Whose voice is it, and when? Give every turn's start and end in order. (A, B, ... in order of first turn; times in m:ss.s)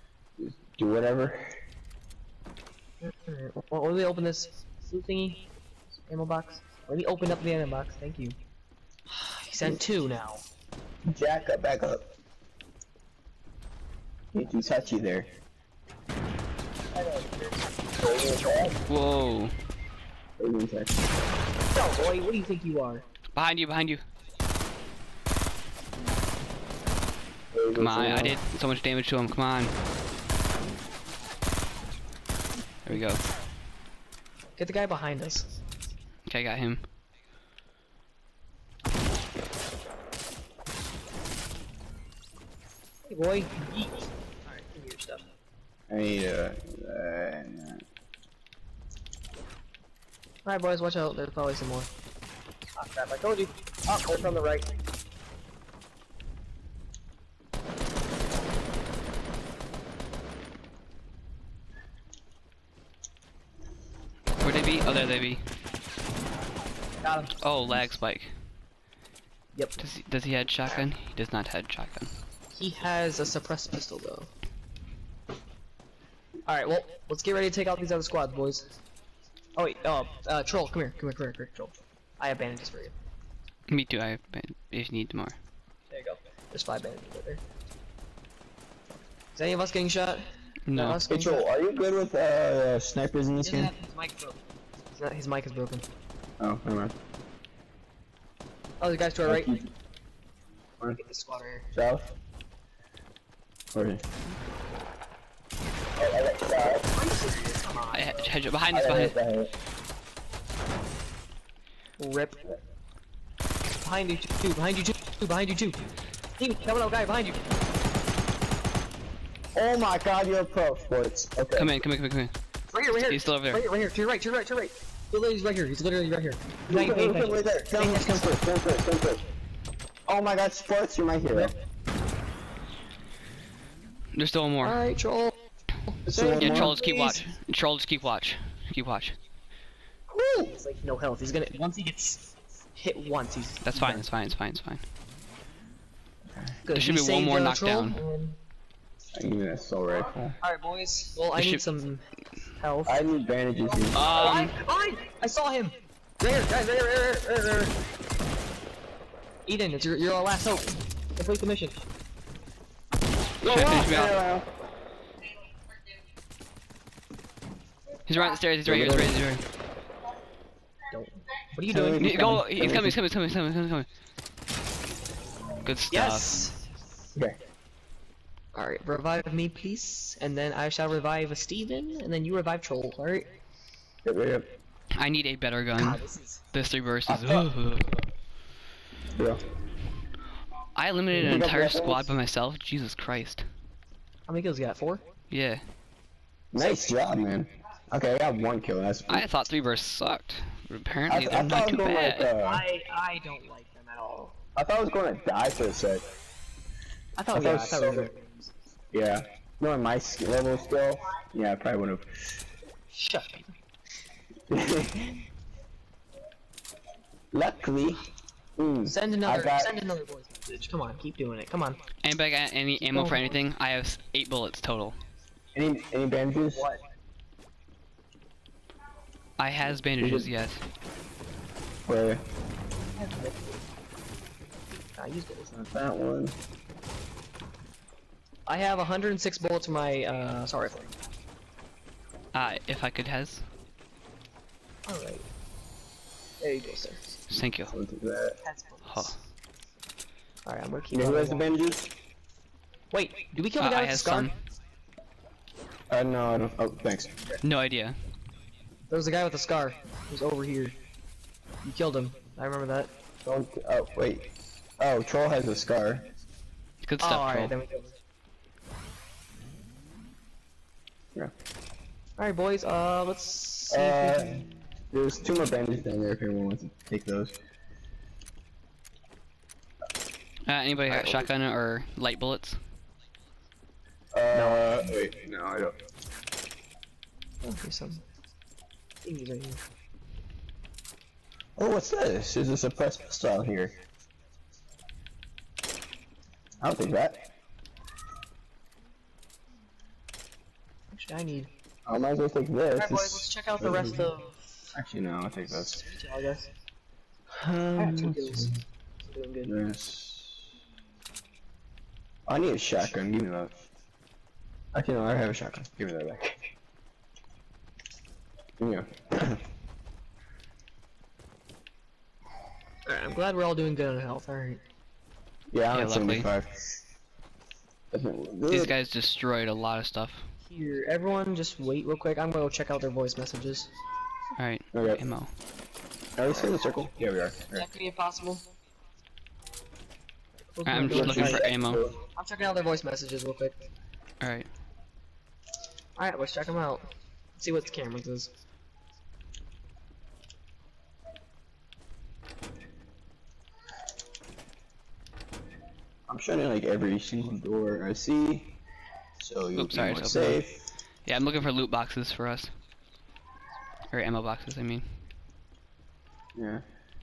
0:00.4-0:01.6 A
0:03.0-0:05.4 B
0:06.1-0:08.4 B
0:09.1-0:10.4 B
0:11.1-0:12.0 A
0:14.3-0:15.3 A
0:16.9-0:18.8 B
0:18.0-0:18.8 A
0:18.9-0:19.5 C
0:20.4-0:21.0 A
0:21.7-0:23.0 B
0:23.4-0:24.0 C
0:27.5-0:28.4 A
0:27.8-0:29.7 C
0:32.8-0:33.2 C
0:34.6-0:35.5 B
0:36.3-0:36.8 C
0:43.1-0:45.3 B
0:45.9-0:47.9 A
0:50.4-0:51.9 B
0:52.8-0:54.7 B
1:04.4-1:05.4 C
1:07.0-1:07.3 B
1:07.4-1:08.3 C
1:09.8-1:12.1 C
1:12.5-1:14.3 B
1:16.5-1:18.7 B
1:19.6-1:23.0 B
1:23.7-1:25.4 C
1:25.9-1:27.4 B
1:29.4-1:31.4 B
1:30.7-1:31.0 C
1:31.1-1:33.7 A
1:33.4-1:34.4 B
1:34.9-1:35.8 B
1:36.4-1:37.0 A
1:38.8-1:39.5 B
1:39.2-1:39.7 A
1:41.0-1:41.6 B
1:41.7-1:42.1 A
1:43.7-1:44.0 A
1:46.0-1:46.9 A
1:46.9-1:48.3 B
1:47.9-1:49.2 C
1:48.7-1:49.5 A
1:52.0-1:52.4 B
1:53.8-1:55.8 B
1:56.4-1:57.4 B
1:59.6-2:01.7 A
2:01.6-2:02.3 C
2:02.7-2:08.2 B
2:03.1-2:03.6 C
2:06.7-2:09.2 A
2:10.1-2:11.5 A
2:14.1-2:14.8 C
2:14.6-2:15.4 B
2:15.9-2:17.2 B
2:16.1-2:16.7 A
2:16.4-2:19.2 C
2:20.1-2:22.2 B
2:22.8-2:24.0 B
2:23.6-2:24.8 C
2:26.3-2:26.6 A
2:26.6-2:28.4 B
2:26.7-2:28.0 C
2:29.2-2:30.4 A
2:30.4-2:32.0 B
2:31.4-2:31.6 C
2:32.6-2:33.0 B
2:32.9-2:34.4 A
2:33.9-2:34.6 C
2:34.0-2:37.8 B
2:39.5-2:41.8 B
2:43.4-2:44.5 A
2:43.4-2:44.2 C
2:48.1-2:49.4 C
2:48.6-2:49.2 A
2:50.9-2:52.8 B
2:51.7-2:53.0 A
2:52.0-2:53.9 C
2:55.6-2:56.4 C
2:55.9-2:56.5 B
2:58.5-3:03.3 B
3:04.0-3:04.5 A
3:05.0-3:06.0 C
3:05.8-3:06.4 B
3:06.5-3:08.0 C
3:07.1-3:07.4 A
3:09.1-3:09.4 A
3:10.8-3:13.5 C
3:11.1-3:12.2 A
3:14.3-3:15.0 B
3:15.3-3:15.6 C
3:16.5-3:19.3 A
3:19.1-3:22.3 C
3:21.1-3:22.6 A
3:22.4-3:24.3 B
3:24.6-3:26.0 A
3:27.2-3:28.5 B
3:27.3-3:28.1 A
3:28.9-3:32.4 A
3:32.9-3:33.5 B
3:34.5-3:35.2 A
3:37.3-3:38.0 A
3:38.6-3:39.7 A
3:38.9-3:41.8 B
3:42.0-3:45.0 C
3:42.8-3:43.3 B
3:45.5-3:46.7 A
3:46.6-3:46.8 B
3:49.4-3:50.6 C
3:50.0-3:50.3 A
3:51.9-3:52.2 A
3:53.0-3:53.4 B
3:55.0-3:55.5 B
3:55.5-3:56.4 A
3:58.5-4:00.9 B
4:02.3-4:03.5 C
4:04.9-4:05.3 B
4:06.4-4:07.0 B
4:07.3-4:07.8 C
4:07.7-4:08.4 A
4:08.4-4:09.1 B
4:08.9-4:09.2 C
4:10.5-4:11.5 B
4:10.9-4:11.9 A
4:12.9-4:14.3 B
4:13.6-4:14.3 C
4:15.9-4:17.4 A
4:17.4-4:18.0 C
4:18.9-4:20.8 B
4:21.6-4:22.9 B
4:23.2-4:26.1 A
4:26.8-4:27.5 C
4:27.0-4:27.9 B
4:32.2-4:34.4 B
4:33.7-4:37.4 A
4:40.4-4:42.6 C
4:40.9-4:41.3 A
4:44.1-4:45.8 A
4:44.3-4:44.9 B
4:47.4-4:48.0 B
4:49.0-4:49.6 B
4:51.6-4:53.7 A
4:56.6-4:57.2 A
5:00.9-5:01.5 B
5:01.9-5:04.1 A
5:02.8-5:04.7 B
5:04.7-5:05.9 A
5:05.8-5:06.5 B
5:07.3-5:08.6 A
5:07.8-5:09.5 B
5:09.5-5:10.5 A
5:12.3-5:13.7 A
5:14.7-5:16.5 A
5:18.6-5:19.4 A
5:22.9-5:24.6 B
5:25.5-5:26.6 A
5:25.7-5:26.3 C
5:27.9-5:28.7 A
5:28.5-5:30.3 C
5:30.5-5:33.7 B
5:34.4-5:35.3 C
5:34.7-5:35.0 A
5:36.2-5:37.7 A
5:36.3-5:36.6 B
5:37.6-5:38.4 B
5:40.6-5:41.5 B
5:40.7-5:41.9 C
5:40.8-5:42.0 A
5:42.1-5:43.6 B
5:44.2-5:44.5 C
5:46.0-5:48.3 B
5:56.1-5:58.6 A
5:59.2-6:00.6 A
5:59.6-6:00.4 C
6:01.0-6:02.5 C
6:03.9-6:04.9 C
6:06.4-6:06.6 A